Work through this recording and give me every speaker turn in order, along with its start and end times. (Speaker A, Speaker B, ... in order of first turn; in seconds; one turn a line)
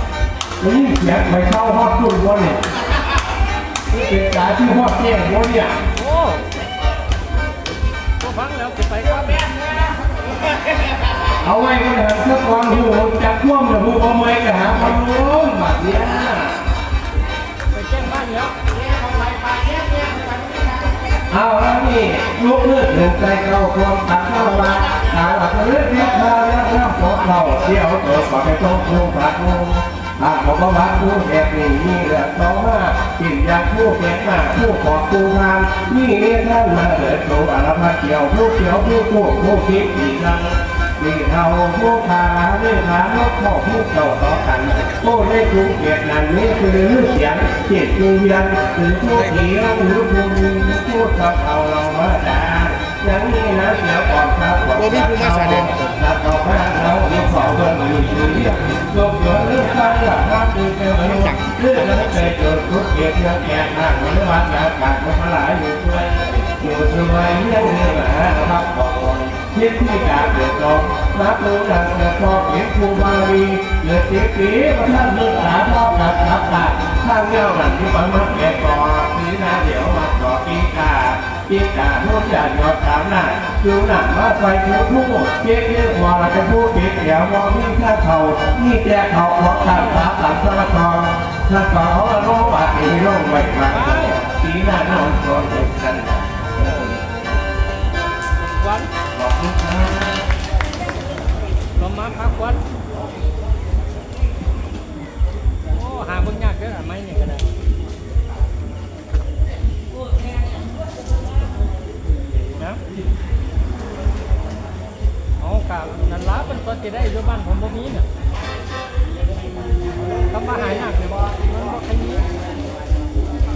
Speaker A: 0.6-2.6
Speaker A: 3.9-5.8
Speaker B: 6.0-6.4
Speaker B: 8.2-9.7
Speaker A: 11.4-16.6
Speaker B: 17.7-18.5
Speaker A: 21.3-96.3
Speaker B: 93.7-94.2
Speaker B: 98.4-98.9
Speaker A: 99.2-100.2
Speaker B: 101.8-102.6
Speaker B: 105.7-107.5
Speaker B: 115.4-118.1
Speaker B: 120.2-122.3